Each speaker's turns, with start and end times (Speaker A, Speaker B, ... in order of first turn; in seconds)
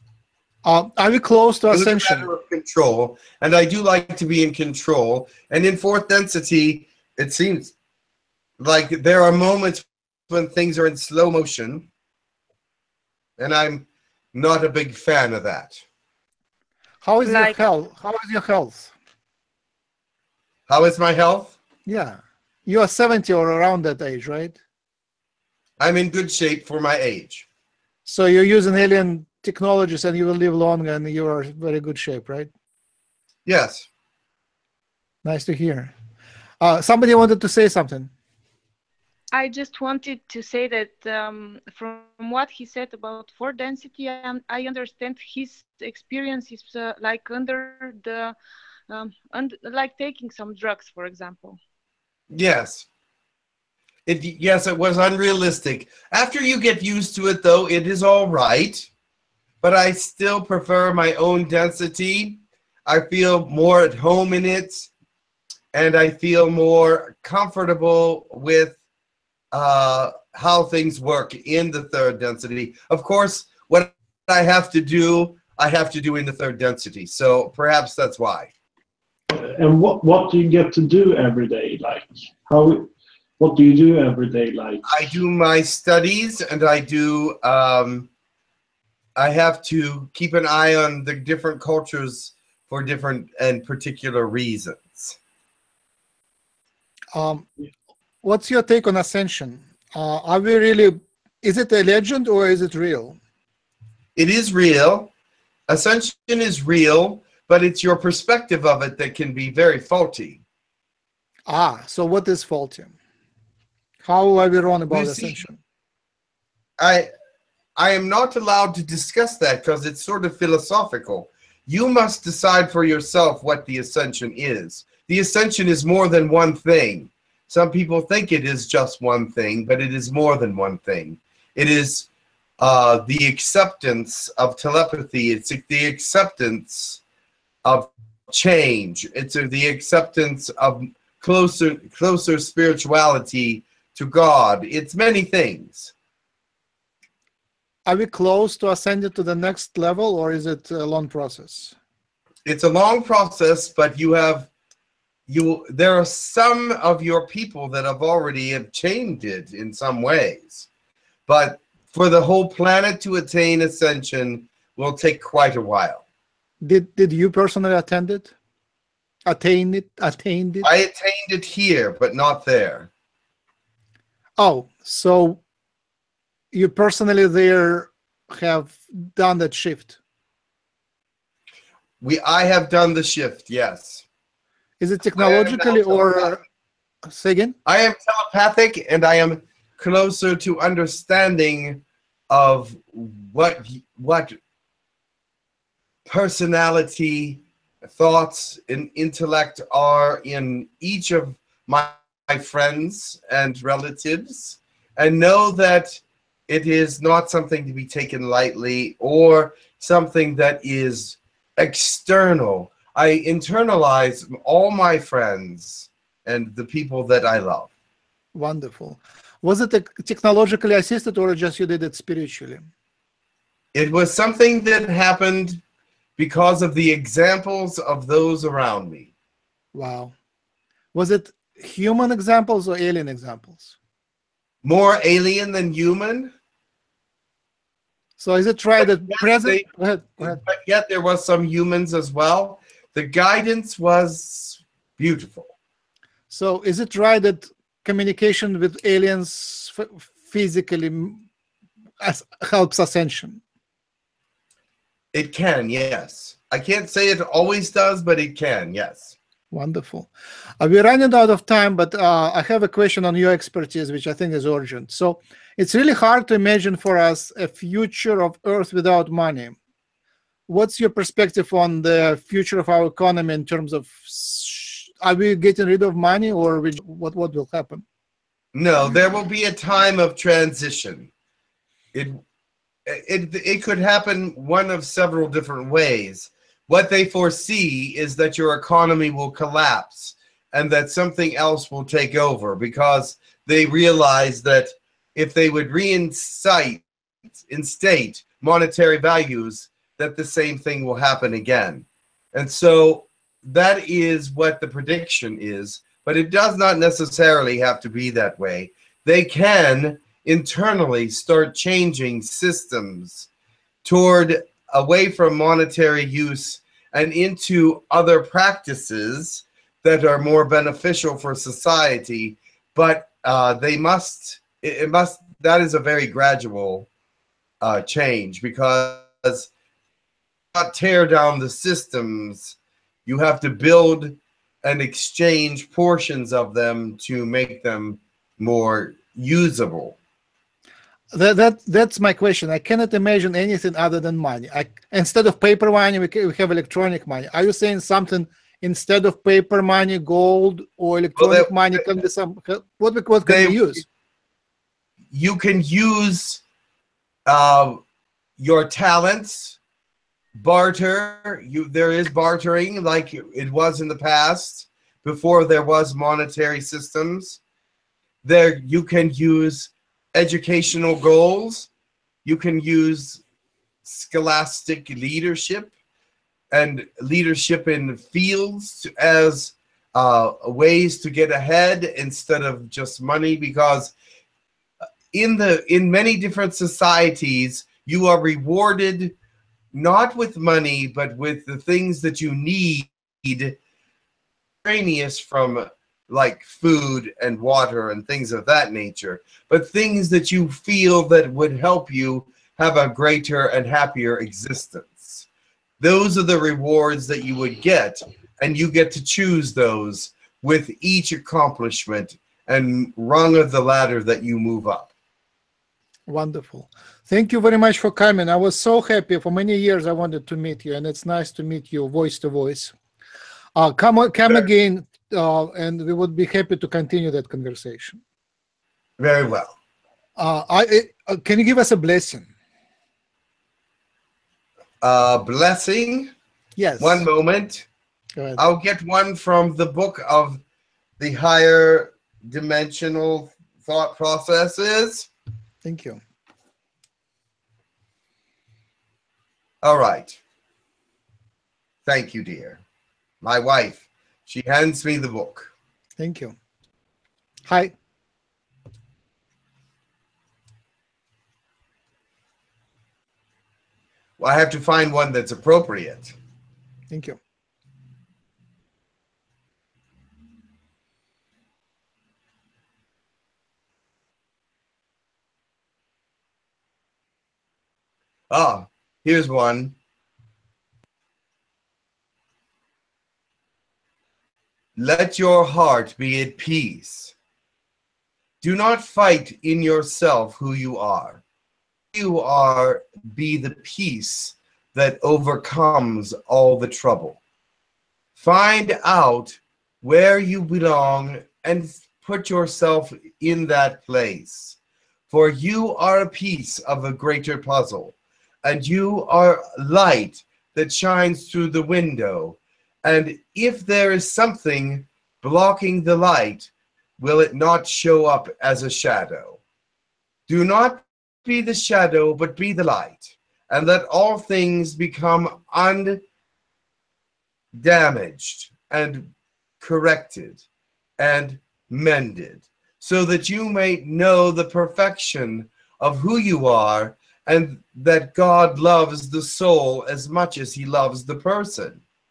Speaker A: 0.6-2.3, 17.0-18.9, 21.9-24.6, 28.0-32.5, 35.2-35.9, 36.6-38.1, 97.1-97.5, 98.2-103.2, 111.5-112.9, 114.0-115.6, 147.9-151.7, 166.6-168.3, 169.2-170.7, 174.4-175.4, 176.5-180.0, 184.8-186.4, 187.1-187.6, 218.3-222.7, 229.7-230.1, 230.9-233.8, 238.2-240.4, 246.3-251.2, 252.0-253.4, 259.5-269.6, 270.5-277.8, 341.1-353.8, 416.1-422.7, 423.5-428.0, 430.2-432.3, 436.6-437.1, 438.1-438.4, 445.6-446.0, 456.0-456.3, 457.4-457.7, 466.9-467.2
Speaker B: 1.7-7.7, 8.6-11.9, 13.4-15.8, 20.7-21.6, 25.8-27.4, 33.5-33.9, 52.3-52.9, 54.0-58.9, 59.6-64.9, 65.7-68.8, 69.5-78.5, 84.8-88.1, 89.2-95.2, 104.2-105.1, 105.7-110.4, 114.9-115.4, 116.8-117.1, 117.8-132.1, 132.6-137.0, 137.6-145.9, 152.4-154.5, 155.3-160.7, 161.3-166.0, 170.6-172.9, 182.0-184.0, 185.2-186.3, 187.6-194.3, 196.1-217.7, 223.7-225.6, 226.2-229.1, 234.6-236.3, 238.8-239.7, 240.2-245.5, 255.1-259.1, 278.5-281.1, 281.9-282.2, 282.9-296.8, 297.5-313.3, 313.8-326.9, 327.6-329.5, 330.5-339.9, 351.1-351.9, 353.2-353.8, 355.1-356.4, 357.3-357.8, 358.4-359.6, 360.4-367.4, 368.2-371.7, 372.2-373.2, 373.8-375.7, 376.5-383.9, 385.1-389.1, 389.7-393.6, 394.6-405.2, 405.8-414.9, 429.0-429.5, 434.8-436.1, 436.8-437.6, 438.4-440.4, 441.0-445.1, 449.6-450.2, 451.9-452.6, 453.2-455.5, 464.2-466.1, 478.3-479.8, 484.8-487.1, 488.4-491.2, 491.9-497.2, 498.1-504.6, 505.1-519.4, 520.3-526.0, 527.5-530.4, 531.0-541.8
Speaker C: 17.2-17.6, 39.3-48.3, 48.9-51.6
Speaker D: 79.3-85.0